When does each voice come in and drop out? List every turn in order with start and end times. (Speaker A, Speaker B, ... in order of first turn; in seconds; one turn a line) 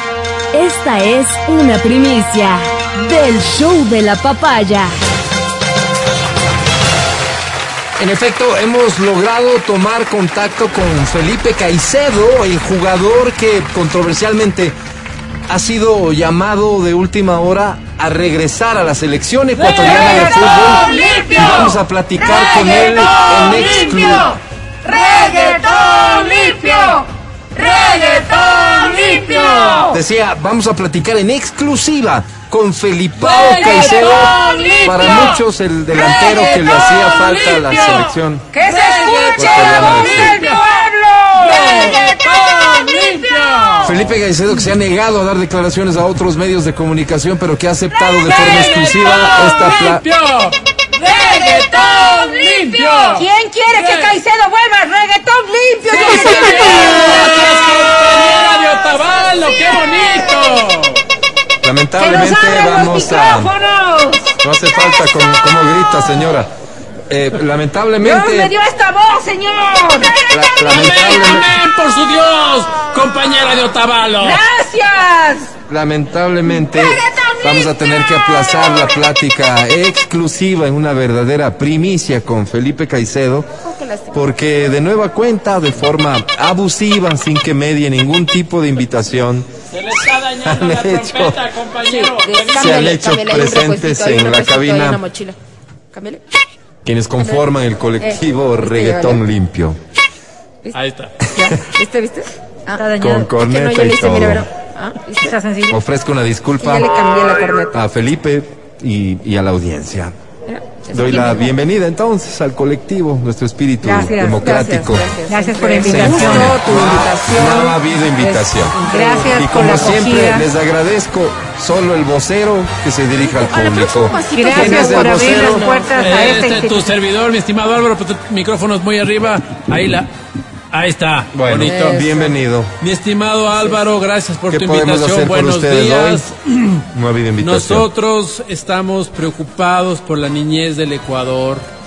Speaker A: 0.5-4.9
Speaker B: 8.0-14.8
Speaker B: 15.5-24.4
Speaker C: 19.5-21.8
Speaker D: 20.1-21.5
Speaker D: 22.3-30.0
Speaker C: 22.6-24.2
Speaker C: 24.9-27.0
Speaker C: 27.5-29.9
Speaker B: 29.9-38.5
Speaker C: 33.2-35.4
Speaker C: 36.0-44.1
Speaker D: 38.5-43.8
Speaker E: 39.1-39.7
Speaker B: 39.3-40.3
Speaker B: 43.8-50.0
Speaker D: 47.9-49.4
Speaker C: 48.2-54.2
Speaker D: 51.1-57.8
Speaker C: 55.9-61.0
Speaker D: 59.3-60.5
Speaker B: 61.6-63.5
Speaker D: 62.0-64.4
Speaker B: 64.4-66.5
Speaker B: 67.1-68.5
Speaker D: 68.0-70.8
Speaker B: 70.3-71.5
Speaker C: 70.6-74.4
Speaker D: 74.2-75.5
Speaker B: 75.7-83.5
Speaker D: 76.7-79.0
Speaker E: 83.7-84.2
Speaker B: 84.1-89.5
Speaker C: 89.7-93.0
Speaker B: 90.4-91.4
Speaker E: 91.8-95.4
Speaker B: 92.5-95.0
Speaker E: 95.9-96.2
Speaker B: 96.8-99.8
Speaker E: 97.2-97.5
Speaker E: 98.0-99.2
Speaker C: 100.7-101.1
Speaker E: 101.3-105.4
Speaker D: 102.8-103.3
Speaker B: 103.0-104.5
Speaker D: 105.2-105.8
Speaker B: 105.7-106.9
Speaker E: 106.6-107.8
Speaker B: 107.7-110.1
Speaker E: 110.5-111.4
Speaker B: 110.9-115.1
Speaker D: 113.8-114.6
Speaker E: 113.9-120.0
Speaker D: 115.2-116.8
Speaker B: 115.8-118.8
Speaker D: 118.8-120.5
Speaker B: 119.3-125.7
Speaker E: 123.2-126.2
Speaker D: 124.3-126.9
Speaker C: 125.9-130.1
Speaker C: 130.7-132.0
Speaker B: 131.3-132.7
Speaker E: 131.6-132.4
Speaker C: 132.8-136.9
Speaker B: 134.5-136.2
Speaker B: 136.9-137.9
Speaker C: 137.4-141.7